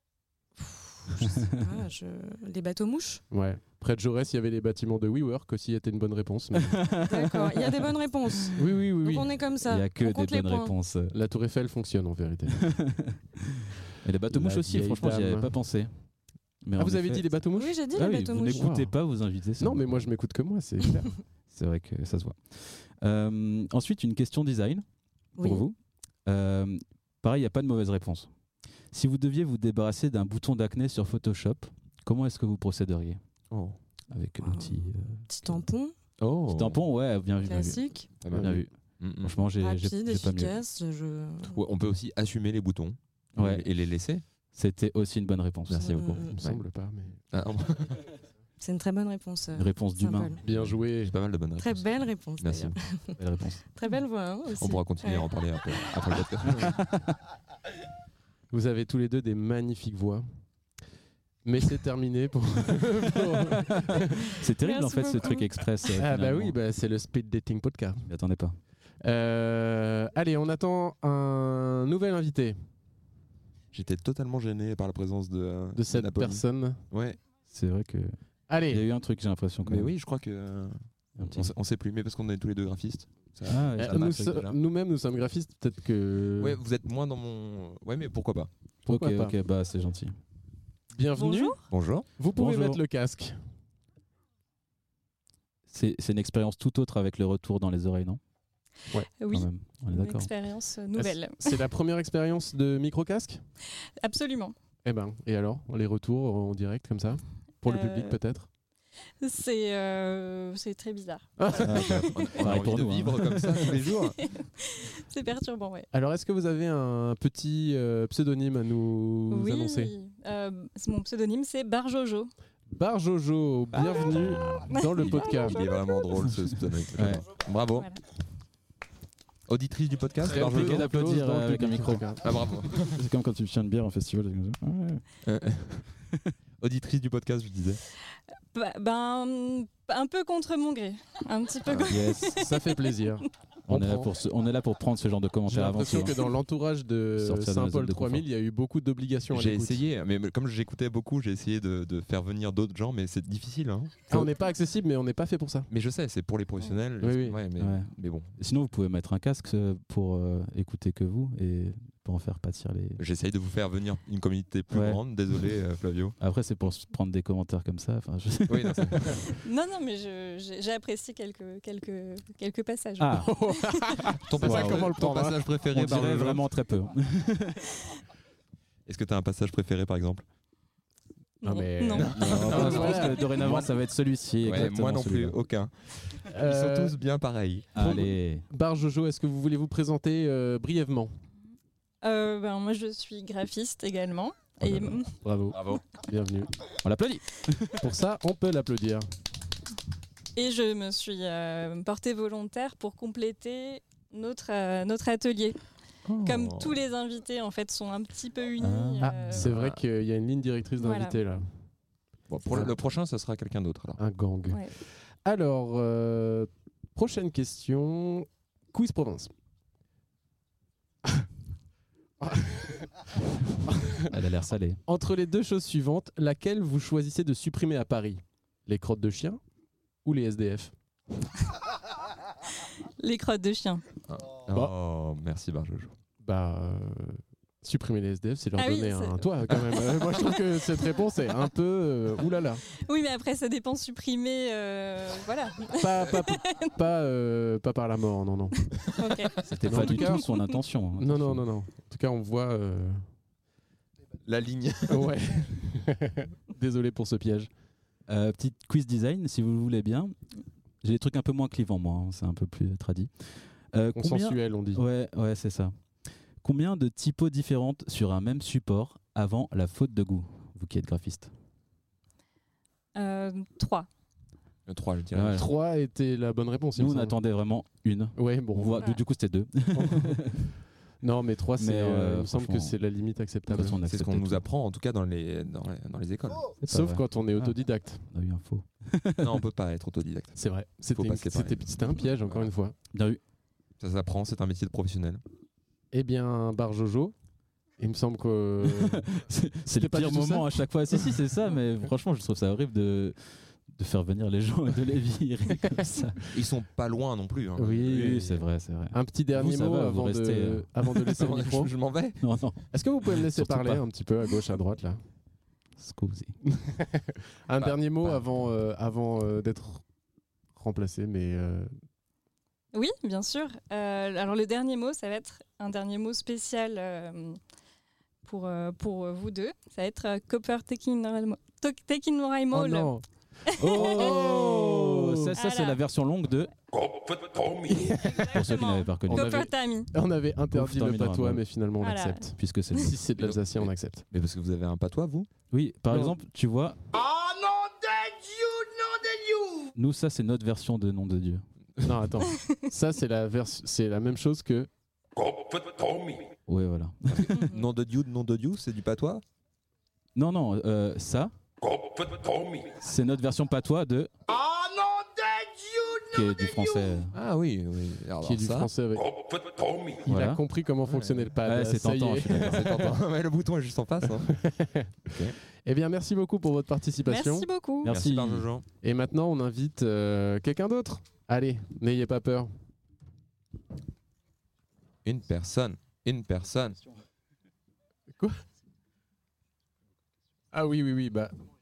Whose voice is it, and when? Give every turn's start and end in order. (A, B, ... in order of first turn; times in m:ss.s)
0:00.6-0:03.2 A
0:03.3-0:06.8 B
0:06.6-0:07.9 C
0:07.1-0:10.7 A
0:08.5-0:09.3 B
0:09.6-0:11.1 C
0:11.1-0:12.7 B
0:12.7-0:15.9 C
0:14.3-0:15.6 B
0:16.6-0:17.3 C
0:16.8-0:17.8 B
0:17.5-0:18.7 A
0:17.9-0:20.1 C
0:18.4-0:19.0 B
0:19.6-0:21.1 B
0:21.5-0:24.8 C
0:25.4-0:25.7 A
0:25.4-0:25.7 C
0:26.2-0:28.3 C
0:28.9-0:33.2 C
0:34.1-0:35.6 C
0:34.4-0:35.9 A
0:36.2-0:36.8 D
0:36.5-0:38.7 C
0:37.4-0:38.1 A
0:38.2-0:39.4 D
0:38.3-0:38.6 B
0:39.2-0:40.6 C
0:39.6-0:41.6 A
0:41.4-0:44.2 D
0:43.4-0:43.7 C
0:44.5-0:46.5 C
0:45.7-0:46.1 D
0:45.8-0:46.4 A
0:46.3-0:47.2 B
0:47.3-0:48.0 D
0:48.6-0:50.4 A
0:49.6-0:50.4 C
0:50.4-0:51.1 B
0:50.4-0:52.8 D
0:51.6-0:55.9 A
0:53.2-0:53.6 C
0:54.6-0:56.8 D
0:56.7-0:57.0 C
0:58.5-1:00.2 B
1:01.4-1:04.3 B
1:03.6-1:06.6 C
1:04.6-1:05.5 A
1:05.9-1:08.0 B
1:08.1-1:08.6 C
1:09.0-1:12.6 B
1:13.7-1:17.2 D
1:15.7-1:16.8 B
1:17.5-1:18.2 C
1:18.5-1:18.8 B
1:18.7-1:19.9 C
1:19.6-1:24.6 D
1:21.2-1:21.5 C
1:23.5-1:24.4 C
1:23.8-1:26.6 B
1:26.4-1:28.5 D
1:28.8-1:29.4 B
1:28.8-1:30.2 C
1:30.9-1:31.6 B
1:31.2-1:31.6 E
1:31.7-1:32.1 D
1:32.2-1:33.4 B
1:32.3-1:32.8 C
1:35.7-1:38.2 C
1:39.2-1:41.6 E
1:39.3-1:40.3 C
1:41.0-1:43.4 B
1:44.0-1:44.5 E
1:44.8-1:48.5 B
1:47.6-1:48.2 E
1:49.2-1:51.3 E
1:51.4-1:52.0 B
1:51.6-1:53.6 C
1:51.7-1:54.2 D
1:53.9-1:55.9 E
1:55.9-1:59.9 B
1:59.3-2:02.3 E
2:02.7-2:05.6 B
2:03.9-2:07.9 D
2:04.7-2:06.2 E
2:07.0-2:07.2 C
2:07.7-2:08.0 E
2:09.5-2:10.8 D
2:10.2-2:12.4 B
2:10.3-2:12.2 C
2:12.2-2:13.0 D
2:12.8-2:15.0 C
2:15.2-2:15.8 D
2:16.6-2:17.8 D
2:18.5-2:22.8 E
2:21.8-2:22.4 C
2:22.3-2:24.1 B
2:23.7-2:26.2 C
2:25.5-2:29.8 B
2:27.2-2:28.2 C
2:29.3-2:34.2 D
2:34.1-2:35.7 B
2:35.7-2:38.3 D
2:37.0-2:37.4 B
2:37.6-2:43.0 C
2:43.0-2:46.2 D
2:44.7-2:45.0 C
2:46.2-2:49.1 C
2:48.5-2:49.2 D
2:49.3-2:54.0 E
2:53.0-2:53.3 C
2:53.2-2:55.4 B
2:54.2-2:56.4 D
2:54.4-2:54.9 C
2:55.7-2:57.7 C
2:58.9-3:00.2 D
3:01.4-3:03.0 E
3:01.4-3:03.6 B
3:02.0-3:03.5 D
3:02.1-3:05.4 C
3:04.4-3:07.7 D
3:06.3-3:07.0 B
3:07.7-3:08.4 C
3:07.8-3:11.1 B
3:12.0-3:15.2 E
3:15.2-3:16.5 B
3:15.5-3:15.8 D
3:16.8-3:17.8 C
3:17.8-3:19.1 B
3:20.4-3:25.6 E
3:26.1-3:26.8 D
3:26.2-3:29.4 E
3:28.6-3:29.4 C
3:29.0-3:31.5 B
3:29.4-3:29.8 D
3:30.8-3:31.2 E
3:32.3-3:34.0 D
3:32.5-3:32.8 B
3:34.0-3:39.3 B
3:42.2-3:43.1 B
3:43.6-3:44.1 B
3:44.1-3:44.8 C
3:44.8-3:49.4 B
3:50.0-3:50.7 B
3:53.0-3:53.8 E
3:54.1-3:55.9 D
3:56.2-4:02.6 B
3:58.6-4:00.9 E
4:02.8-4:06.7 E
4:05.8-4:08.7 B
4:08.9-4:10.6 E
4:09.4-4:11.4 C
4:09.6-4:10.2 B
4:11.0-4:13.0 B
4:14.2-4:15.2 D
4:14.9-4:17.5 B
4:18.1-4:20.1 C
4:20.8-4:25.7 C
4:23.9-4:24.8 B
4:26.4-4:31.3 C
4:32.9-4:33.9 E
4:34.7-4:35.5 D
4:35.1-4:35.5 C
4:35.3-4:37.2 B
4:36.8-4:40.5 C
4:38.2-4:38.9 B
4:39.7-4:40.4 B
4:41.0-4:43.8 B
4:41.6-4:42.8 C
4:43.5-4:44.4 C
4:43.6-4:46.5 D
4:46.6-4:47.6 C
4:46.6-4:48.0 B
4:48.1-4:49.3 C
4:49.2-4:50.4 D
4:50.4-4:52.7 B
4:50.9-4:52.5 D
4:52.9-4:53.2 C
4:53.8-4:55.2 D
4:55.9-4:57.1 B
4:57.8-4:59.1 B
4:58.6-5:03.2 C
4:59.7-5:01.2 B
5:03.7-5:06.2 C
5:06.3-5:08.2 D
5:07.6-5:11.7 B
5:07.8-5:10.7 C
5:11.1-5:12.2 D
5:12.2-5:13.8 C
5:12.7-5:15.0 B
5:15.8-5:16.4 C
5:16.4-5:19.8 B
5:18.0-5:18.4 C
5:20.6-5:21.7 B
5:22.7-5:27.4 E
5:28.2-5:32.9 E
5:32.5-5:33.0 B
5:33.5-5:34.6 E
5:33.6-5:36.5 C
5:33.7-5:35.3 B
5:35.4-5:35.8 E
5:36.7-5:37.8 F
5:37.7-5:38.2 B
5:38.1-5:39.9 E
5:38.2-5:39.4 C
5:39.1-5:44.0 B
5:40.5-5:41.4 C
5:41.8-5:42.8 E
5:42.3-5:43.0 C
5:43.2-5:45.3 D
5:45.5-5:46.8 C
5:45.9-5:46.2 B
5:46.9-5:49.7 F
5:49.7-5:51.4 C
5:51.8-5:54.7 B
5:55.2-5:56.3 F
5:56.5-5:57.4 C
5:57.1-5:59.2 D
6:00.2-6:01.3 C
6:01.6-6:02.7 F
6:02.8-6:04.1 C
6:04.3-6:07.0 F
6:06.1-6:07.1 C
6:07.1-6:08.7 D
6:08.2-6:09.1 B
6:09.0-6:10.0 F
6:10.0-6:13.0 B
6:10.0-6:10.4 C
6:10.8-6:11.3 D
6:11.4-6:12.6 C
6:12.4-6:14.4 D
6:14.0-6:17.5 B
6:15.1-6:15.4 D
6:17.0-6:17.9 E
6:17.8-6:18.5 C
6:17.9-6:18.6 D
6:18.8-6:22.5 B
6:25.0-6:26.8 D
6:30.5-6:31.3 B